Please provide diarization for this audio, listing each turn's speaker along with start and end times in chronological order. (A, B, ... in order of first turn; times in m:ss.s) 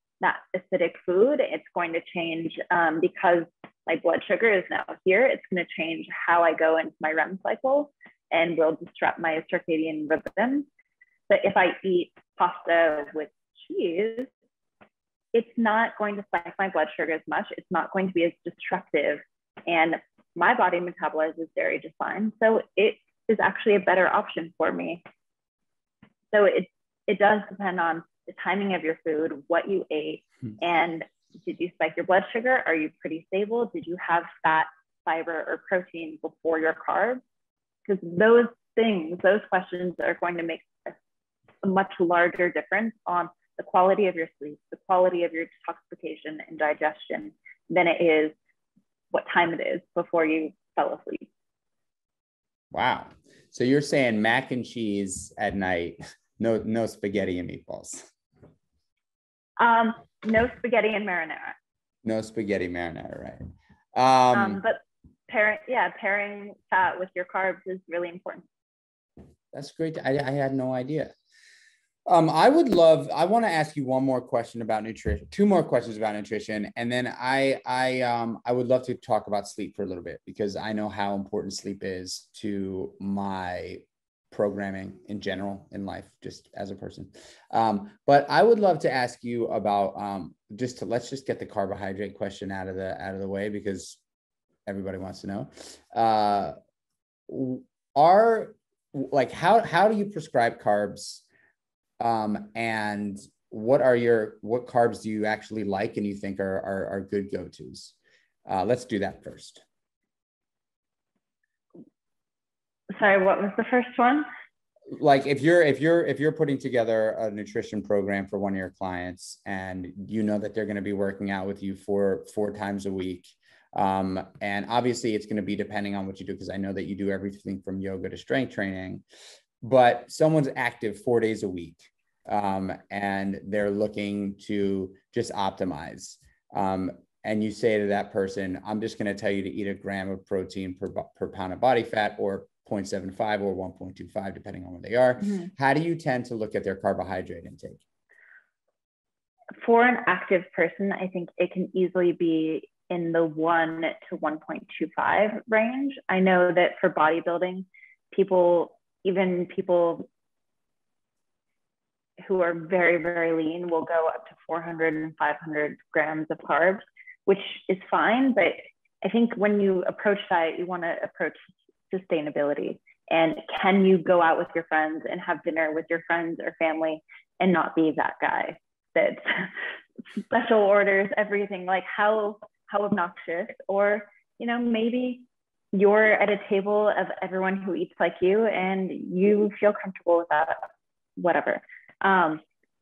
0:00.2-0:10.7 A
0:11.3-0:14.3 A
0:15.3-0:25.0 A
0:26.3-0:37.2 A
0:37.8-0:41.0 A
0:41.6-0:48.3 A
0:49.1-0:51.3 A
0:52.7-0:58.1 B
0:59.6-1:01.6 A
1:02.0-1:03.4 B
1:03.9-1:04.6 B
1:04.3-1:08.4 A
1:09.5-1:11.1 B
1:12.1-1:34.0 B
1:34.6-1:36.6 B
1:37.3-1:41.2 B
1:42.0-1:47.9 B
1:48.4-1:49.6 B
1:52.9-1:54.2 A
1:54.9-2:09.0 B
2:09.6-2:27.8 B
2:29.6-2:40.1 A
2:42.2-3:12.4 A